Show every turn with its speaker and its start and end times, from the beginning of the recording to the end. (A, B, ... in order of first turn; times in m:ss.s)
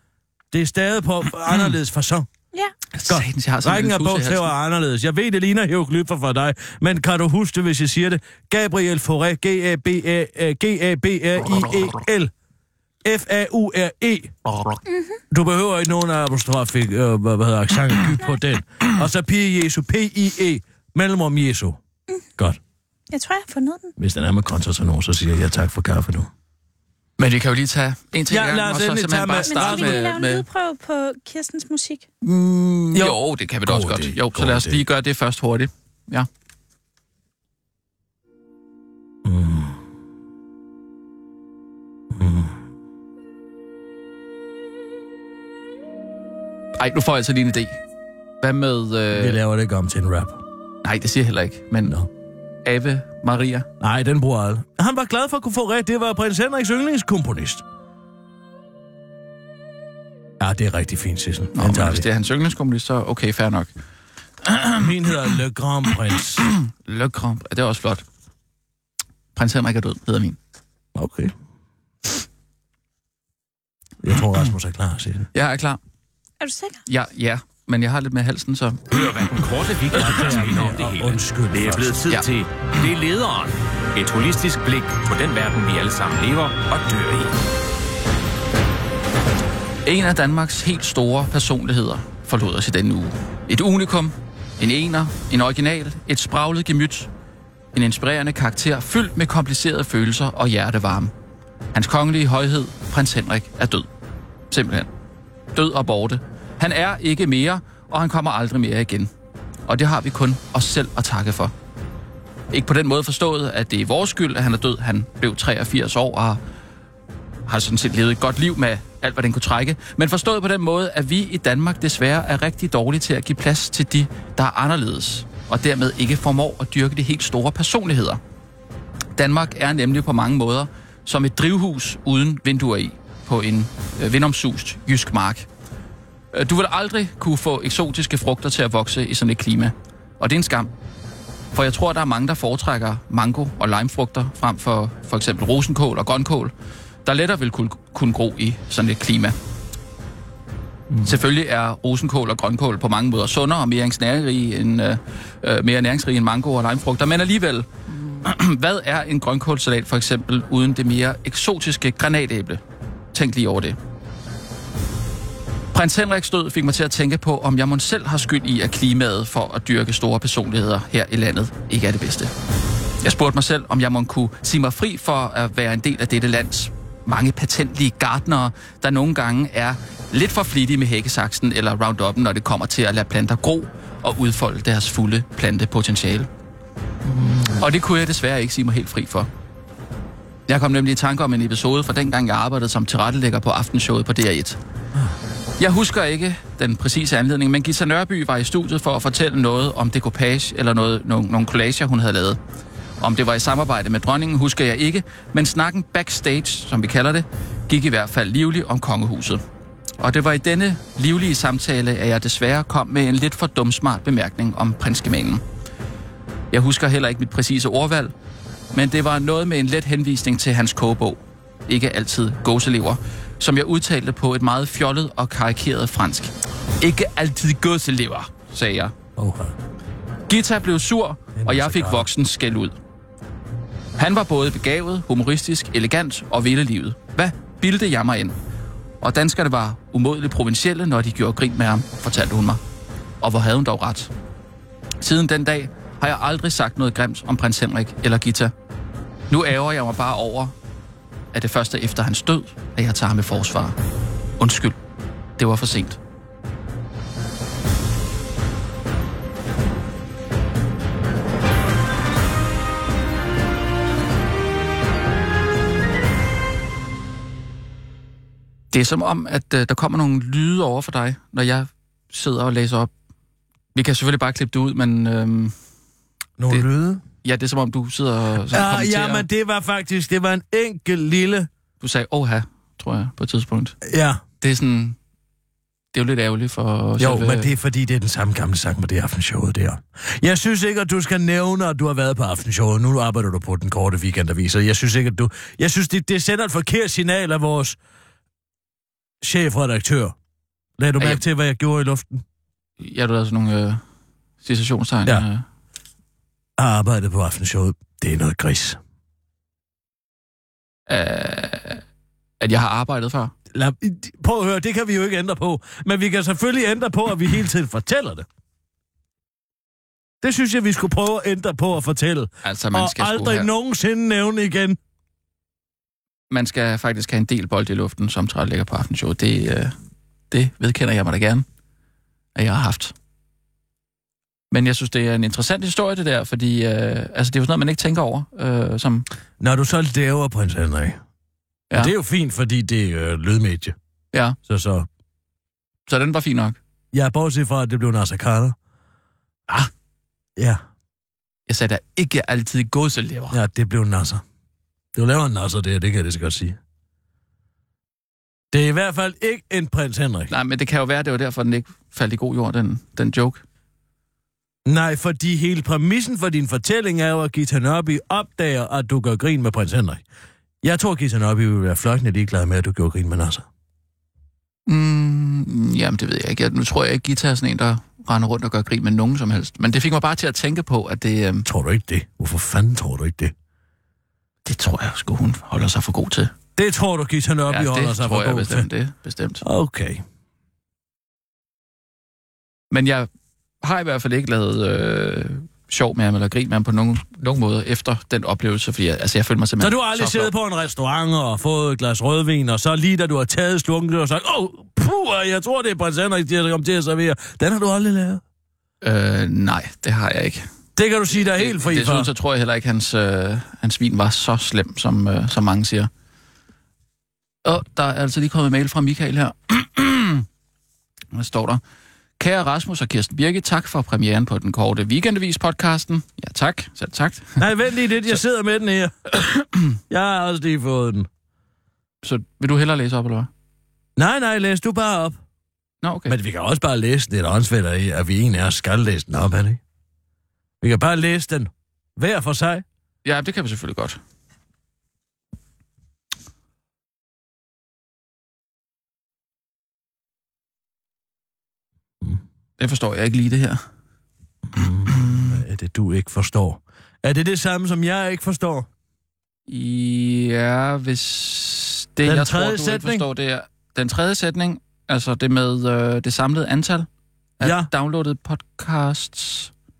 0:00.5-0:02.3 A
0:02.9-0:04.5 B
0:03.1-0:12.3 A
0:13.0-0:14.8 A
0:14.9-0:15.2 C
0:15.3-0:21.8 A
0:23.1-0:23.9 C
0:24.0-0:26.3 A
0:27.2-0:30.4 B
0:28.3-0:30.1 A
0:29.5-0:32.0 C
0:32.2-0:36.3 B
0:32.9-0:34.8 A
0:39.2-0:39.8 A
0:42.1-0:42.6 A
0:46.8-0:47.8 B
0:48.4-0:49.4 B
0:49.1-0:50.4 A
0:50.8-0:51.9 B
0:52.6-0:53.7 B
0:53.8-0:57.6 A
1:00.4-1:02.1 A
1:01.5-1:03.7 B
1:04.4-1:04.8 B
1:04.8-1:06.5 A
1:06.4-1:08.0 B
1:09.3-1:10.4 B
1:10.9-1:11.3 A
1:14.0-1:15.3 A
1:15.3-1:15.8 B
1:16.4-1:16.8 C
1:16.8-1:19.1 B
1:18.9-1:27.3 D
1:19.9-1:22.0 A
1:29.8-1:37.1 B
1:37.7-1:41.1 B
1:41.7-1:43.9 B
1:44.5-1:44.9 B
1:45.5-1:49.1 B
1:49.7-1:51.5 B
1:52.5-1:56.4 B
1:57.5-2:08.2 B
2:09.2-2:15.5 B
2:16.3-2:20.7 B
2:21.5-2:26.5 B
2:27.0-2:29.4 B
2:30.9-2:31.2 A
2:31.0-2:42.6 B
2:43.1-2:43.8 B
2:45.7-2:52.3 B
2:53.0-3:06.3 B
3:07.0-3:07.6 A
3:07.6-3:09.3 B
3:10.5-3:14.6 B
3:15.6-3:22.4 B
3:23.0-3:29.4 B
3:30.0-3:35.4 B
3:36.5-3:38.1 B
3:38.7-3:48.9 B
3:49.2-3:49.5 A
3:50.3-3:52.7 B
3:51.4-3:52.1 A
3:54.0-3:58.3 B
3:59.0-4:02.6 B
4:03.2-4:04.1 B
4:05.0-4:08.5 B
4:09.3-4:10.5 B
4:11.3-4:13.8 B
4:14.4-4:14.8 B
4:15.4-4:16.0 B
4:28.7-4:32.9 B
4:33.7-4:35.5 B
4:36.4-4:37.0 A
4:37.2-4:39.2 B
4:38.5-4:41.5 A
4:41.8-4:43.8 B
4:43.8-4:44.2 A
4:44.4-4:45.0 B
4:45.9-4:47.5 B
4:47.0-4:57.8 A
4:59.2-5:00.1 A
5:00.8-5:02.2 A
5:02.8-5:03.8 B
5:04.4-5:05.4 B
5:06.6-5:08.8 A
5:10.9-5:11.8 B
5:12.4-5:13.3 B
5:13.5-5:18.2 A
5:20.2-5:24.8 A
5:22.4-5:23.5 B
5:26.3-5:29.7 B
5:30.3-5:31.4 B
5:32.3-5:32.9 B
5:34.5-5:39.0 B
5:39.4-5:41.0 A
5:41.7-5:43.7 A
5:44.4-5:44.9 A
5:45.9-5:46.6 B
5:46.9-5:48.6 A
5:50.4-5:50.6 A
5:51.5-5:53.4 B
5:53.3-5:54.2 A
5:54.9-5:56.6 A
5:58.5-6:00.3 A
6:00.3-6:03.4 B
6:04.6-6:10.0 A
6:10.6-6:13.4 A
6:14.7-6:21.4 B
6:21.4-6:23.3 A
6:24.4-6:26.3 B
6:26.6-6:28.7 A
6:27.5-6:29.4 B
6:29.4-6:30.0 A
6:32.7-6:33.1 B
6:33.6-6:40.3 B
6:39.6-6:48.2 A
6:48.8-6:50.5 B
6:50.8-6:52.1 A
6:51.1-6:55.9 B
6:57.4-7:00.2 B
7:01.1-7:01.6 B
7:02.2-7:07.4 B
7:07.4-7:09.2 A
7:09.9-7:11.1 A
7:12.0-7:13.3 B
7:14.0-7:15.2 A
7:15.8-7:16.2 B
7:16.1-7:19.6 A
7:20.6-7:22.6 A
7:23.0-7:24.0 B
7:32.6-7:33.6 B
7:34.5-7:38.7 A
7:34.9-7:35.4 B
7:39.5-7:46.9 B
7:42.0-7:43.0 A
7:47.4-7:49.5 B
7:47.4-7:47.7 A